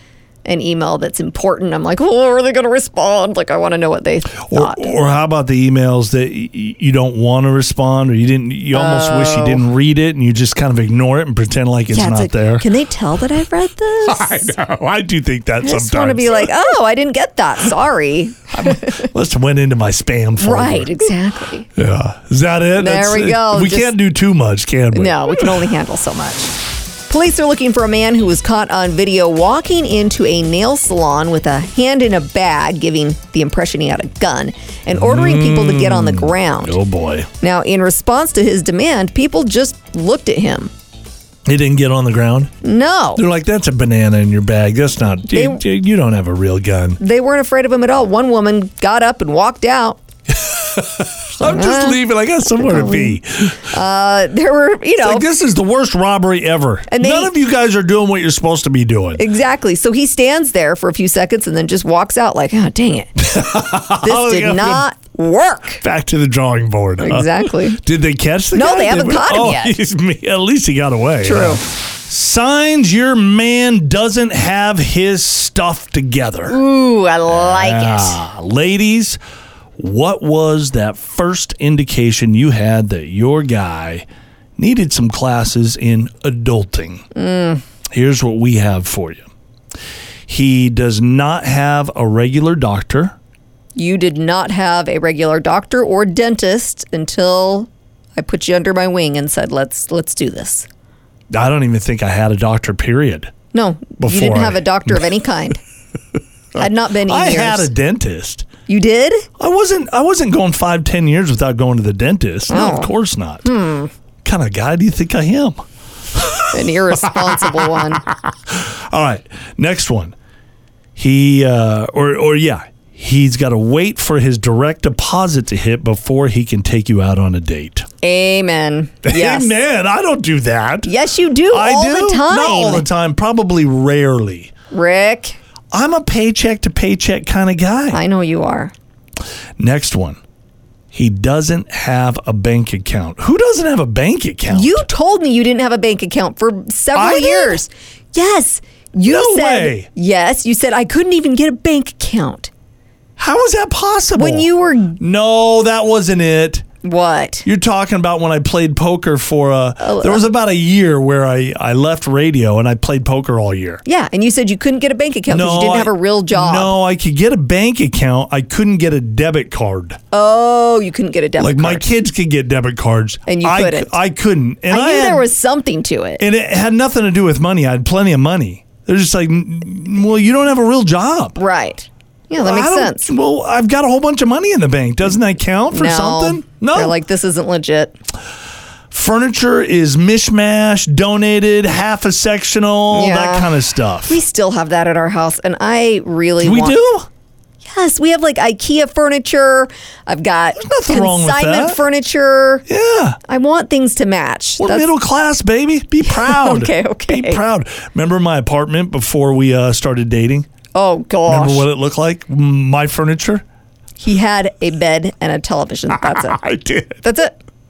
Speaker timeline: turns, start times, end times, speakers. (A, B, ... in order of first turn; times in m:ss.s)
0:00.4-0:04.9 A
0:04.5-0:12.6 B
0:08.7-0:09.6 A
0:11.9-0:14.5 A
0:14.0-0:16.6 B
0:15.6-0:19.1 A
0:18.5-0:21.1 B
0:20.4-0:21.7 A
0:21.7-0:25.6 B
0:22.8-0:23.9 A
0:24.9-0:26.5 A
0:27.1-0:36.8 A
0:34.9-0:37.3 B
0:37.4-0:40.7 A
0:41.4-0:42.5 B
0:42.6-0:43.2 A
0:43.1-0:47.0 B
0:45.3-0:45.6 A
0:47.0-0:50.0 A
0:50.3-0:53.7 B
0:51.4-0:55.3 A
0:55.0-0:59.2 B
0:56.9-0:57.3 A
0:59.2-1:05.8 A
1:03.2-1:04.8 B
1:05.8-1:16.6 B
1:07.0-1:07.8 A
1:08.5-1:09.8 A
1:11.2-1:11.6 A
1:16.5-1:18.2 A
1:17.3-1:19.2 B
1:19.8-1:24.0 B
1:24.6-1:27.0 B
1:27.1-1:27.6 A
1:27.9-1:29.3 B
1:30.3-1:33.2 B
1:33.8-1:40.7 A
1:41.3-1:43.3 B
1:43.5-1:45.6 A
1:44.0-1:45.1 B
1:46.5-1:47.7 A
1:46.6-1:48.5 B
1:48.7-1:49.3 A
1:49.4-1:53.5 B
1:52.5-1:52.9 A
1:53.4-1:53.9 A
1:54.2-1:55.6 B
1:56.1-2:00.1 B
1:56.5-1:58.0 A
2:01.0-2:07.8 B
2:08.0-2:09.5 A
2:09.0-2:10.9 B
2:10.8-2:12.9 A
2:11.5-2:14.5 B
2:14.7-2:15.4 A
2:15.7-2:18.0 B
2:17.9-2:18.7 A
2:19.6-2:20.2 B
2:20.9-2:24.8 B
2:24.5-2:32.5 A
2:26.9-2:27.6 B
2:29.0-2:29.9 B
2:33.2-2:36.6 B
2:34.2-2:35.0 A
2:36.8-2:37.5 A
2:37.4-2:43.8 B
2:39.8-2:40.3 A
2:43.8-2:46.7 A
2:45.3-2:50.0 B
2:50.1-2:51.9 A
2:51.4-2:55.3 B
2:53.3-2:53.9 A
2:54.7-2:56.2 A
2:56.2-3:01.4 B
3:01.4-3:03.1 A
3:02.4-3:07.0 B
3:05.7-3:08.0 A
3:08.9-3:14.2 B
3:12.9-3:13.5 A
3:14.0-3:16.8 A
3:16.4-3:17.1 B
3:17.6-3:22.6 A
3:20.6-3:21.8 B
3:22.7-3:23.2 B
3:23.3-3:24.9 A
3:24.6-3:30.5 B
3:26.0-3:27.4 A
3:30.7-3:31.7 A
3:31.3-3:33.4 B
3:34.0-3:36.4 A
3:35.9-3:37.0 B
3:37.0-3:37.3 A